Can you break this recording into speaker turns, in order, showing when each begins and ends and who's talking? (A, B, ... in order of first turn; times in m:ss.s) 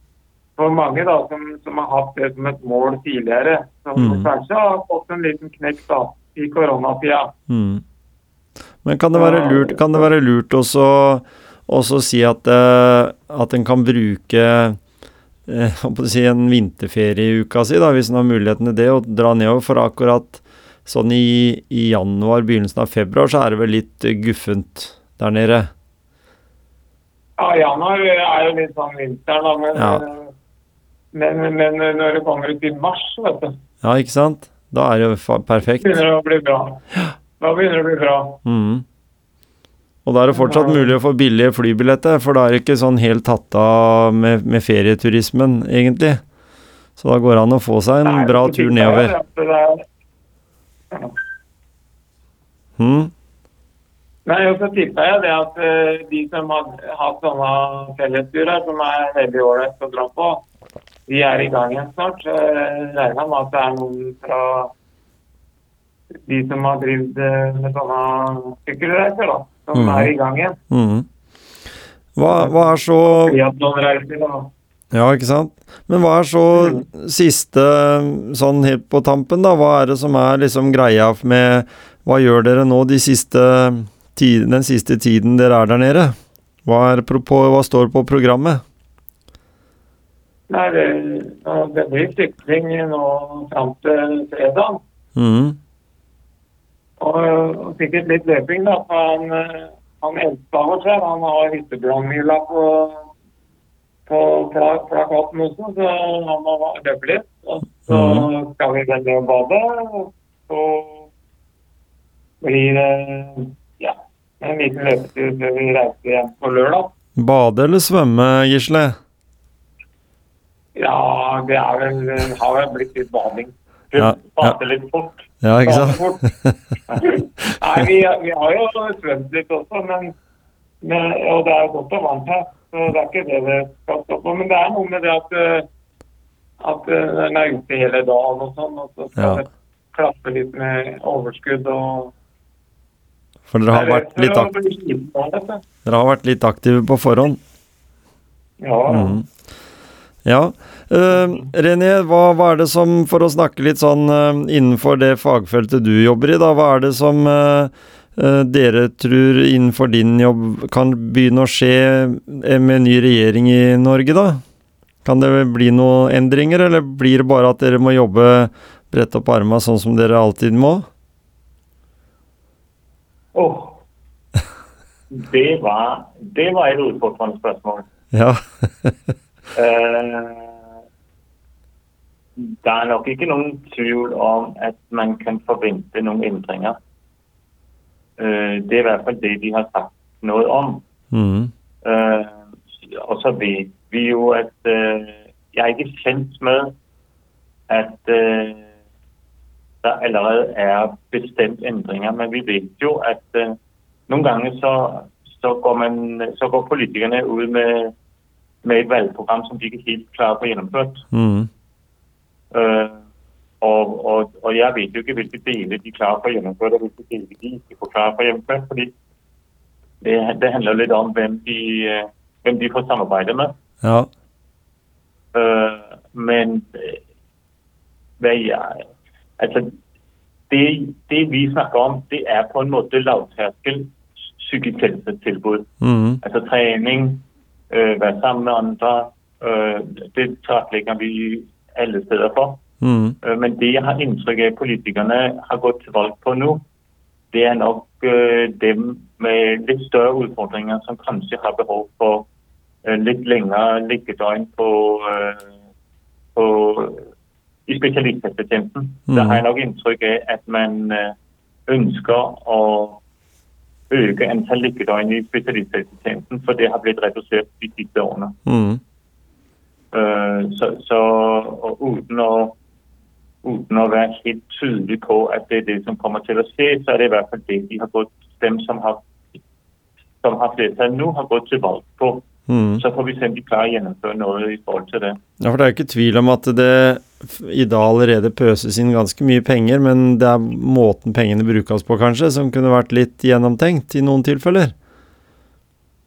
0:00.6-0:07.3 A
0:04.0-0:04.3 B
0:07.5-0:07.8 B
0:08.8-0:14.8 B
0:09.1-0:10.1 A
0:15.5-0:25.7 B
0:27.4-0:30.3 A
0:29.8-0:30.0 B
0:31.1-0:33.6 A
0:33.8-0:36.0 B
0:35.8-0:36.8 A
0:37.4-0:38.4 A
0:38.4-0:38.8 B
0:40.0-0:46.2 B
0:40.3-0:40.9 A
0:47.0-0:49.1 B
0:48.0-0:49.8 A
0:52.8-0:53.1 B
0:54.2-1:00.4 A
1:01.1-1:04.7 A
1:06.2-1:10.6 A
1:09.7-1:10.1 B
1:10.7-1:11.1 B
1:12.2-1:13.4 B
1:12.3-1:14.5 A
1:14.9-1:28.6 B
1:16.6-1:16.8 A
1:30.5-1:34.8 A
1:35.1-1:35.6 B
1:37.0-1:43.1 A
1:44.1-1:51.1 A
1:47.9-1:48.3 B
1:52.4-1:56.9 A
1:57.2-1:59.0 B
2:00.8-2:03.5 A
2:03.9-2:05.3 C
2:04.0-2:04.6 B
2:05.4-2:06.6 B
2:05.6-2:06.2 A
2:07.0-2:10.1 A
2:10.8-2:15.7 A
2:16.6-2:22.1 A
2:23.5-2:24.5 B
2:23.7-2:25.6 A
2:25.8-2:27.4 B
2:28.6-2:29.2 A
2:28.9-2:29.2 B
2:30.2-2:44.4 B
2:45.0-2:50.9 B
2:53.3-2:53.8 C
2:55.1-2:57.9 C
2:58.1-2:59.1 B
2:59.5-3:00.6 C
3:02.4-3:06.8 C
3:08.2-3:10.8 C
3:11.1-3:11.5 B
3:11.8-3:16.7 C
3:17.7-3:18.6 C
3:19.8-3:23.6 C
3:24.1-3:27.9 C
3:28.6-3:31.0 C
3:31.1-3:31.5 B
3:32.5-3:33.0 C
3:33.6-3:38.9 C
3:40.0-3:43.5 C
3:43.8-3:44.1 B
3:45.3-3:47.0 C
3:48.2-3:48.9 C
3:49.4-3:49.7 C
3:50.5-3:55.7 C
3:55.8-3:56.2 B
3:56.2-4:02.6 C
4:02.8-4:03.2 B
4:03.2-4:06.6 C
4:07.3-4:12.3 C
4:12.8-4:15.5 C
4:16.4-4:17.1 C
4:17.7-4:21.1 C
4:19.1-4:19.4 B
4:21.7-4:23.0 C
4:23.9-4:28.4 C
4:28.4-4:28.8 B
4:29.9-4:32.6 C
4:33.4-4:39.0 C
4:40.2-4:45.2 C
4:42.5-4:42.8 B
4:45.4-4:54.7 B